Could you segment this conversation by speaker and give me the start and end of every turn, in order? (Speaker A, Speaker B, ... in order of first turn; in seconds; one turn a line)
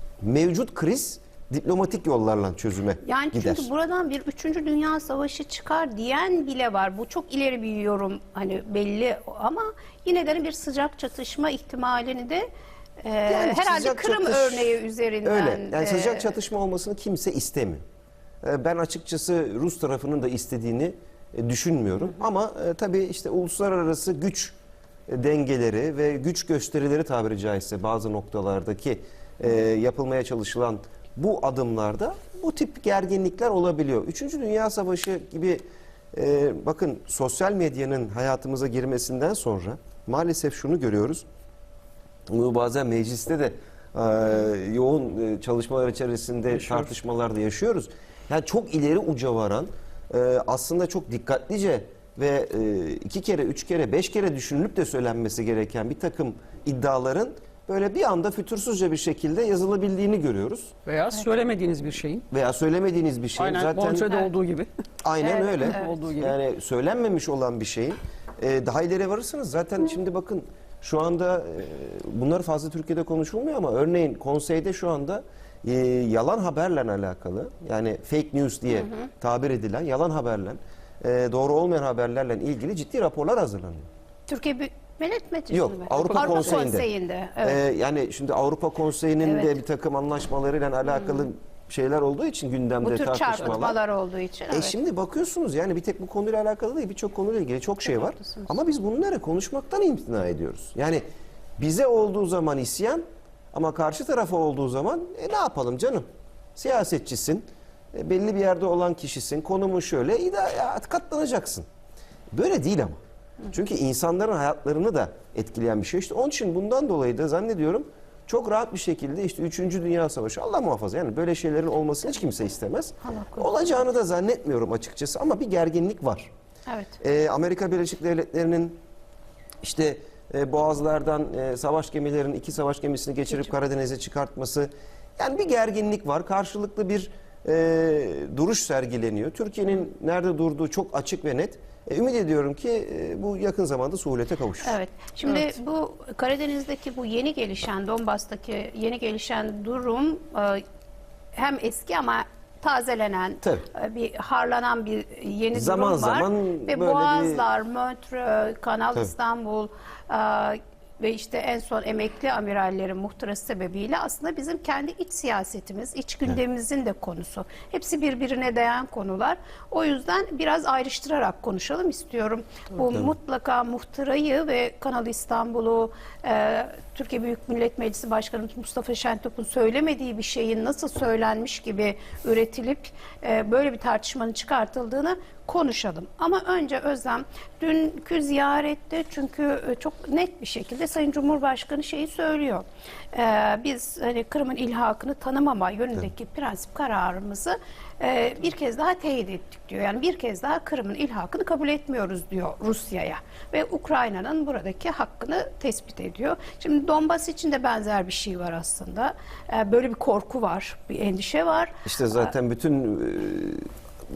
Speaker A: 0.2-3.7
Speaker B: 3.0-12.5
Speaker B: 13.0-16.3
Speaker A: 13.3-17.8
Speaker A: 18.4-24.5
Speaker A: 25.1-35.6
Speaker A: 36.1-41.2
Speaker A: 42.3-60.7
Speaker C: 60.9-62.2
Speaker A: 62.3-64.2
Speaker C: 63.4-64.7
Speaker A: 65.0-83.9
Speaker B: 65.2-66.1
Speaker C: 65.6-66.3
Speaker B: 84.3-87.6
Speaker A: 85.5-86.8
Speaker C: 86.1-86.6
Speaker A: 87.4-93.8
Speaker B: 89.2-89.6
Speaker B: 92.8-94.8
Speaker A: 94.5-101.0
Speaker A: 101.6-106.0
Speaker A: 106.5-111.7
Speaker A: 112.3-126.3
Speaker B: 123.0-123.5
Speaker B: 126.7-127.0
Speaker A: 127.0-128.8
Speaker A: 129.6-144.8
Speaker B: 144.6-150.6
Speaker B: 151.3-212.2
Speaker A: 155.5-157.4
Speaker A: 211.8-213.7